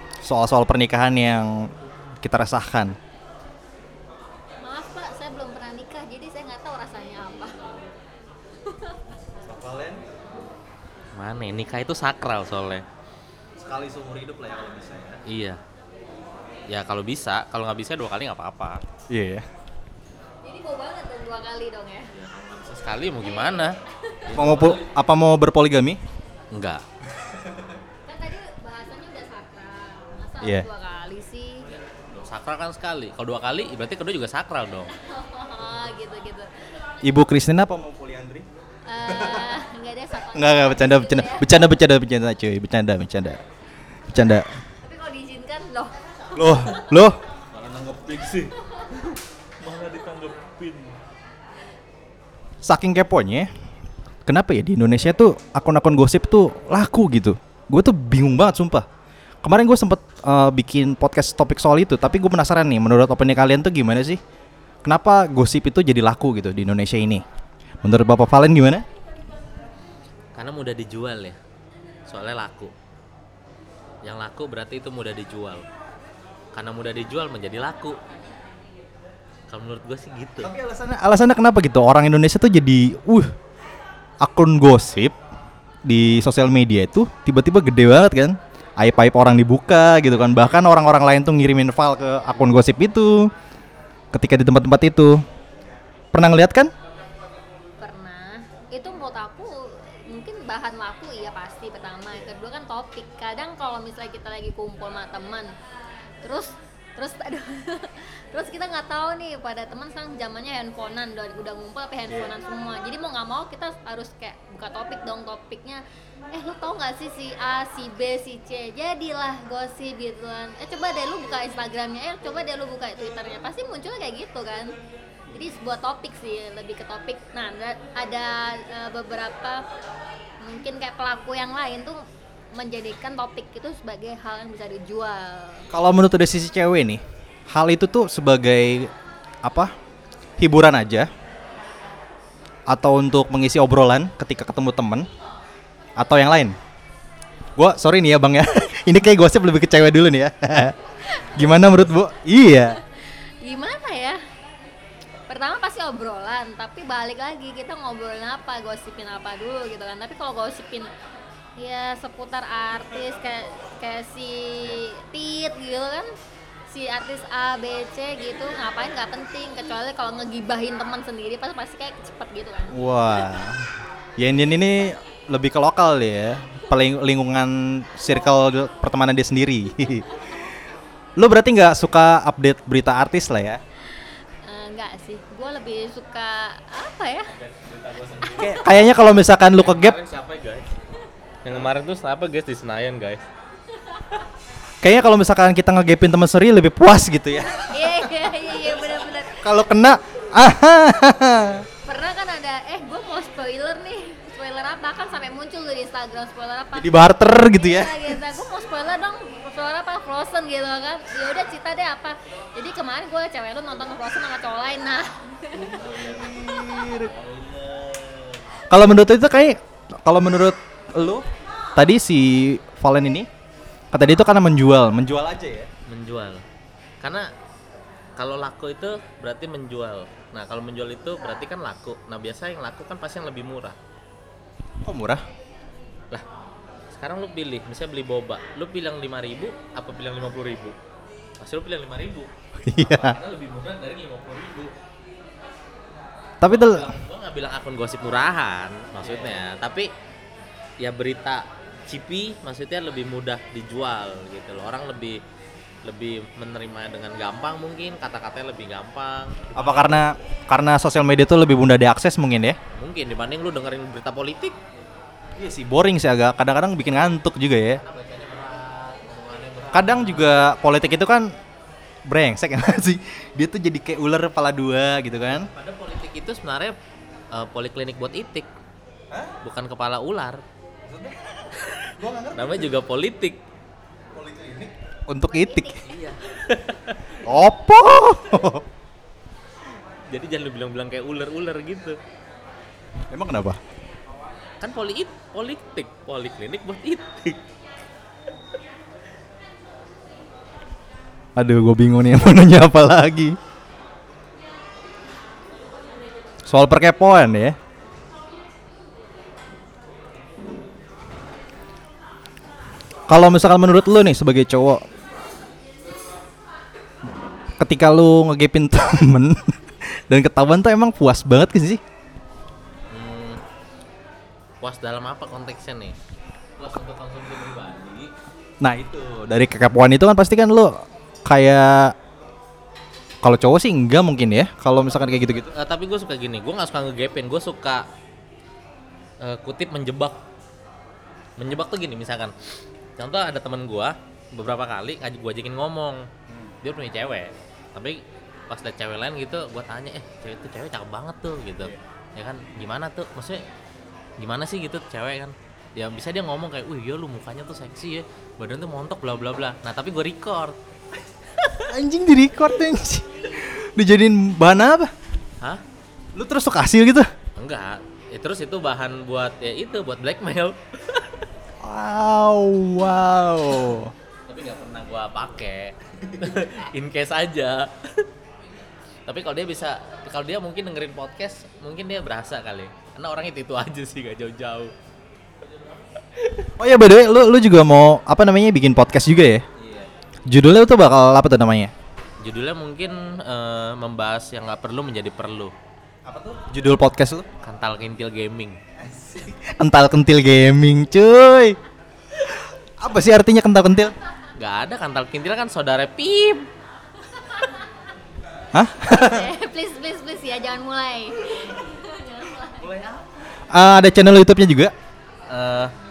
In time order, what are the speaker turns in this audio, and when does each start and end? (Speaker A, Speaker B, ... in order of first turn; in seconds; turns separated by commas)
Speaker A: 0.2-3.0, Speaker B: 4.6-7.9, Speaker B: 8.6-9.0, Speaker A: 9.4-10.0, Speaker C: 11.2-12.8, Speaker A: 13.6-15.2, Speaker C: 15.3-15.6, Speaker C: 16.7-18.8, Speaker A: 19.1-19.4, Speaker B: 20.4-22.1, Speaker C: 22.1-24.9, Speaker B: 23.1-24.3, Speaker A: 24.3-26.0, Speaker C: 26.5-26.8, Speaker A: 27.3-27.7, Speaker B: 28.0-31.7, Speaker C: 31.7-35.0, Speaker B: 34.9-36.5, Speaker A: 37.0-38.5, Speaker B: 38.9-41.6, Speaker A: 39.1-39.5, Speaker A: 40.3-43.4, Speaker A: 44.1-44.6, Speaker B: 44.8-47.1, Speaker A: 46.3-47.2, Speaker C: 47.5-51.0, Speaker A: 52.6-53.5, Speaker A: 54.3-58.9, Speaker A: 59.4-64.2, Speaker A: 64.8-67.2, Speaker A: 67.8-68.9, Speaker C: 70.3-71.4, Speaker C: 72.1-72.7, Speaker C: 74.0-75.7, Speaker C: 76.5-78.0, Speaker C: 79.5-80.5, Speaker A: 80.4-83.3, Speaker A: 84.2-85.2, Speaker A: 85.9-93.3, Speaker A: 94.1-95.2, Speaker A: 96.1-96.7, Speaker B: 97.8-99.5, Speaker B: 100.1-105.5, Speaker B: 106.2-115.8, Speaker B: 116.3-124.7, Speaker B: 125.3-129.6, Speaker B: 130.4-132.0, Speaker B: 132.5-135.7, Speaker A: 135.7-138.9, Speaker A: 139.4-139.7, Speaker A: 140.4-141.1, Speaker A: 142.7-145.1, Speaker A: 146.0-146.6, Speaker A: 147.6-150.8, Speaker B: 151.0-151.7, Speaker A: 151.3-152.8, Speaker B: 152.8-154.2, Speaker B: 155.3-160.9, Speaker B: 161.6-166.1, Speaker B: 166.7-172.8, Speaker A: 172.7-180.1, Speaker A: 181.2-183.6, Speaker B: 184.4-187.3, Speaker C: 187.3-190.7, Speaker A: 188.4-190.0, Speaker C: 191.4-193.2, Speaker A: 194.8-198.1, Speaker B: 197.5-199.7, Speaker C: 198.6-198.9, Speaker A: 199.3-201.7, Speaker B: 201.8-215.8, Speaker A: 206.7-208.4, Speaker A: 215.6-217.1, Speaker C: 215.8-218.6, Speaker B: 216.4-216.8, Speaker A: 218.7-223.3, Speaker A: 223.9-225.7, Speaker C: 225.9-226.4, Speaker C: 227.0-227.3, Speaker C: 228.2-233.8, Speaker A: 234.8-235.2, Speaker C: 236.9-240.8, Speaker C: 241.4-244.7, Speaker A: 242.6-243.2, Speaker A: 246.4-247.0, Speaker C: 246.5-249.9, Speaker A: 249.0-249.4, Speaker C: 250.8-255.2, Speaker C: 255.8-260.0, Speaker A: 259.6-262.6, Speaker C: 262.7-264.6, Speaker A: 265.4-267.8, Speaker C: 267.8-270.5, Speaker A: 269.7-271.3, Speaker A: 272.1-275.5, Speaker C: 275.3-276.8, Speaker C: 277.3-278.5, Speaker C: 279.4-280.4, Speaker A: 280.8-282.8, Speaker C: 281.6-283.4, Speaker A: 284.1-285.8, Speaker B: 285.2-285.9, Speaker C: 285.8-287.2, Speaker A: 287.2-288.7, Speaker C: 290.1-292.0, Speaker A: 293.1-293.6, Speaker C: 294.6-297.4, Speaker A: 301.4-303.4, Speaker A: 306.5-307.6, Speaker A: 313.1-314.8, Speaker A: 317.6-321.8, Speaker C: 322.9-323.4, Speaker C: 324.6-326.0, Speaker C: 326.6-328.1, Speaker A: 328.6-331.9, Speaker A: 333.2-335.5, Speaker C: 335.3-337.9, Speaker C: 339.2-340.2, Speaker C: 341.4-342.4, Speaker C: 343.0-346.0, Speaker C: 346.6-353.4, Speaker C: 354.2-360.6, Speaker A: 361.5-364.9, Speaker A: 366.1-367.1, Speaker C: 367.4-371.2, Speaker A: 371.6-373.9, Speaker C: 374.3-378.1, Speaker C: 379.1-384.7, Speaker C: 385.5-386.5, Speaker A: 386.6-389.4, Speaker C: 389.6-389.9, Speaker A: 390.3-391.7, Speaker C: 392.2-395.5, Speaker A: 396.1-397.3, Speaker C: 397.4-398.6, Speaker A: 398.8-401.6, Speaker A: 402.2-403.9, Speaker C: 404.4-406.5, Speaker A: 408.5-409.3, Speaker B: 408.9-412.7, Speaker C: 412.6-413.1, Speaker A: 413.5-414.7, Speaker C: 415.3-415.7